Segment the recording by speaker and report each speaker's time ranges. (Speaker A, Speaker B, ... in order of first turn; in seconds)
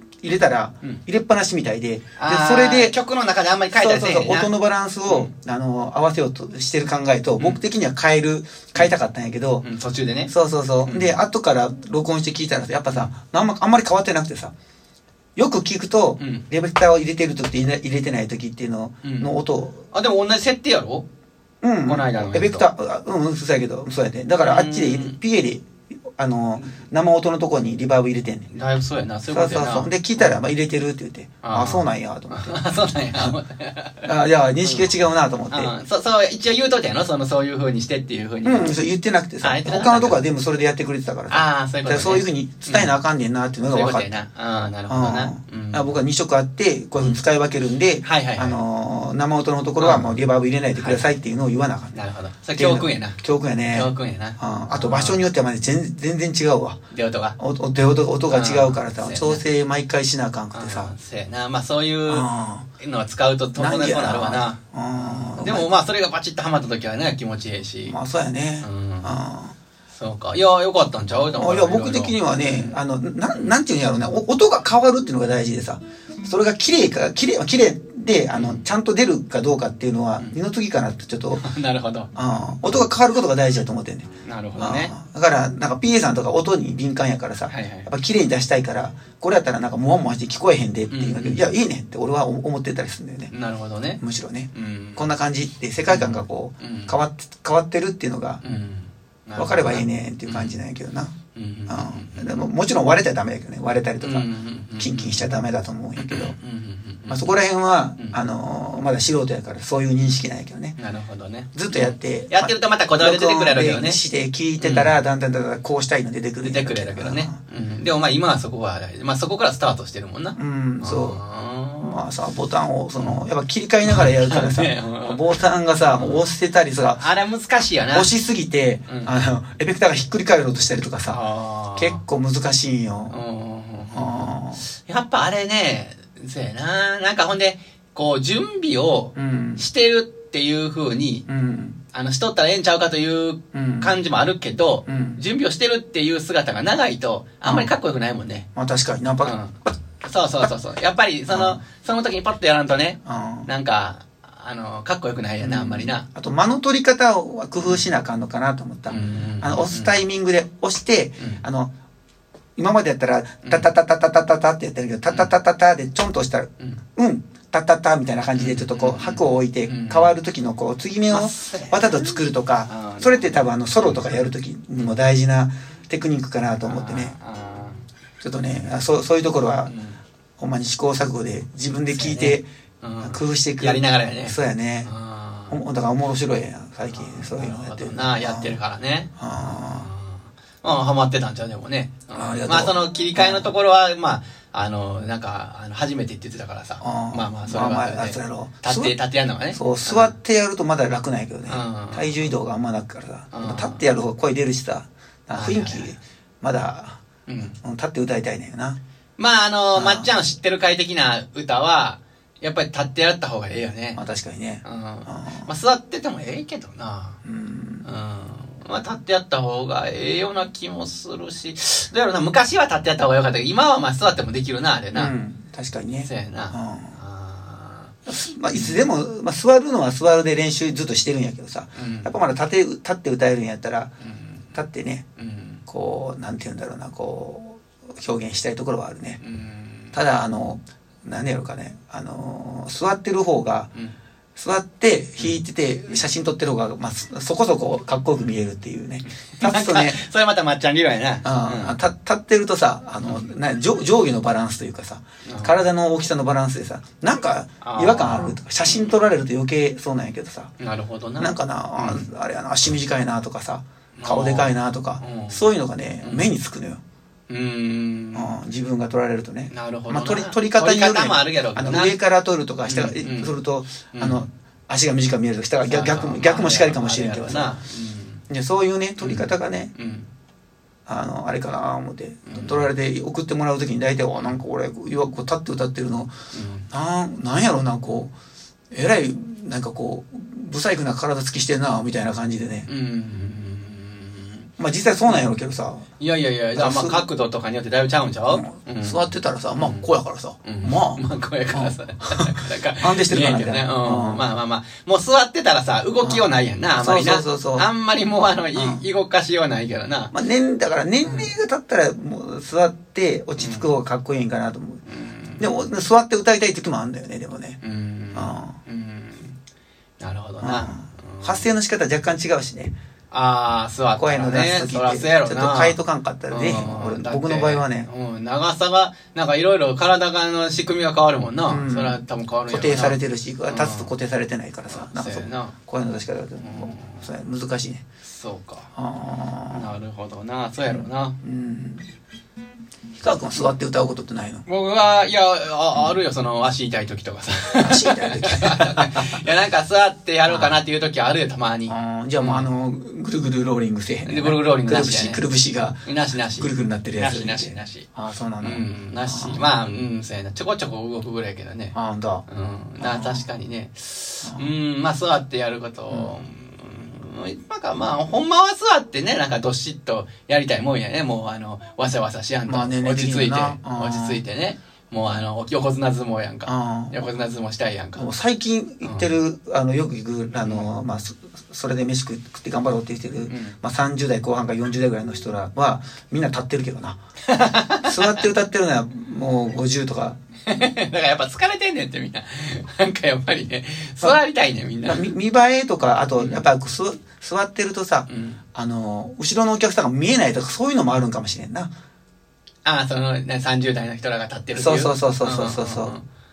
Speaker A: 0.2-2.9, 3.7-9.7, 10.3-14.5, 15.3-19.8, 21.6-28.5, 29.3-32.6, 34.0-35.7, 38.4-44.2, 44.9-51.9, 52.5-56.8, 57.4-60.9, 62.1-62.6, 63.5-65.7, 67.8-69.5, 71.1-81.5, 82.1-93.3, 94.0-98.4, 99.4-101.1, 101.7-106.3, 107.1-110.8, 111.5-117.4, 120.3-121.2, 121.8-127.0, 127.9-131.2, 131.8-133.2, 133.9-134.6, 139.2-139.7, 141.3-141.8, 143.5-144.0, 144.9-145.2, 147.4-147.7, 148.5-149.7, 151.3-151.6, 153.0-153.5, 155.4-161.7, 162.6-177.1, 178.2-179.7, 180.4-182.4, 183.0-184.9, 185.5-188.6, 189.2-189.9, 192.1-193.5, 196.8-198.9, 199.5-207.0, 207.6-208.8, 209.7-210.1, 213.9-215.5, 217.2-217.9, 224.9-227.0, 228.1-233.9, 234.5-235.1, 235.7-239.2, 239.9-243.7, 244.4-250.0, 251.2-260.5, 261.2-266.8, 268.1-277.5, 278.3-279.7, 280.9-286.1, 286.7-288.1, 288.7-292.7, 294.6-295.9, 296.5-297.0, 298.3-304.2, 306.0-306.3, 306.8-307.7, 308.5-308.8, 310.1-314.8, 315.4-317.6, 318.1-318.6, 320.4-322.7, 323.9-327.9, 331.5-337.8, 338.8-339.7, 340.7-341.9, 343.0-344.4, 347.5-349.2, 350.3-350.6, 351.7-359.5, 361.7-362.2, 362.8-363.3, 364.2-364.5, 365.9-366.2, 372.5-374.2, 376.4-377.1, 377.9-387.0, 387.8-390.2, 394.8-401.7, 404.6-405.9
Speaker B: 2.2-4.5, 5.1-5.3, 9.6-10.3, 10.8-11.2, 16.2-16.4, 19.0-19.3, 19.9-21.0, 21.9-22.7, 24.4-25.2, 28.5-30.4, 31.4-34.1, 34.6-34.9, 35.5-38.7, 39.4-40.2, 41.3-42.9, 43.7-46.0, 48.0-48.6, 49.8-50.1, 50.8-51.0, 51.9-53.2, 53.7-55.2, 56.9-57.4, 58.3-59.4, 60.5-62.3, 62.8-68.0, 68.6-69.1, 69.9-72.8, 78.3-78.7, 81.4-82.1, 84.2-84.9, 87.5-87.9, 90.9-91.4, 93.3-94.0, 94.5-95.1, 95.9-97.0, 98.4-100.6, 101.3-102.4, 104.0-105.3, 106.0-107.3, 110.8-114.0, 114.6-115.0, 116.4-122.0, 123.0-123.2, 123.8-125.2, 125.8-126.2, 127.0-128.1, 131.1-132.0, 133.1-141.2, 141.9-148.5, 149.2-156.1, 157.6-157.9, 158.9-159.9, 168.3-170.2, 171.1-174.2, 176.6-177.8, 179.7-180.0, 181.9-185.6, 186.9-200.1, 201.5-202.3, 203.3-203.8, 205.3-206.0, 207.3-207.6, 209.2-214.0, 214.6-217.2, 217.8-225.1, 226.0-227.9, 228.5-228.8, 231.8-232.1, 234.0-234.5, 235.2-235.6, 239.2-240.0, 245.2-246.1, 249.1-251.8, 255.2-255.5, 257.6-258.9, 260.6-262.1, 263.9-265.4, 266.0-266.3, 267.3-268.4, 269.5-272.0, 272.7-273.3, 273.9-274.2, 275.6-278.2, 279.0-280.1, 282.3-282.7, 286.3-286.7, 292.7-294.5, 295.1-295.3, 296.0-299.0, 299.6-299.8, 300.4-310.1, 311.0-311.3, 313.4-313.7, 314.9-315.4, 317.6-319.4, 320.0-321.5, 323.1-325.8, 326.3-333.9, 334.7-335.5, 336.4-337.1, 338.0-338.7, 339.5-341.1, 344.4-352.5, 354.0-355.2, 355.9-357.9, 358.4-361.7, 362.3-378.1, 378.8-379.1, 380.4-380.7, 383.3-383.6, 387.3-388.2, 390.4-395.1, 396.1-396.4, 398.1-398.4, 402.6-406.0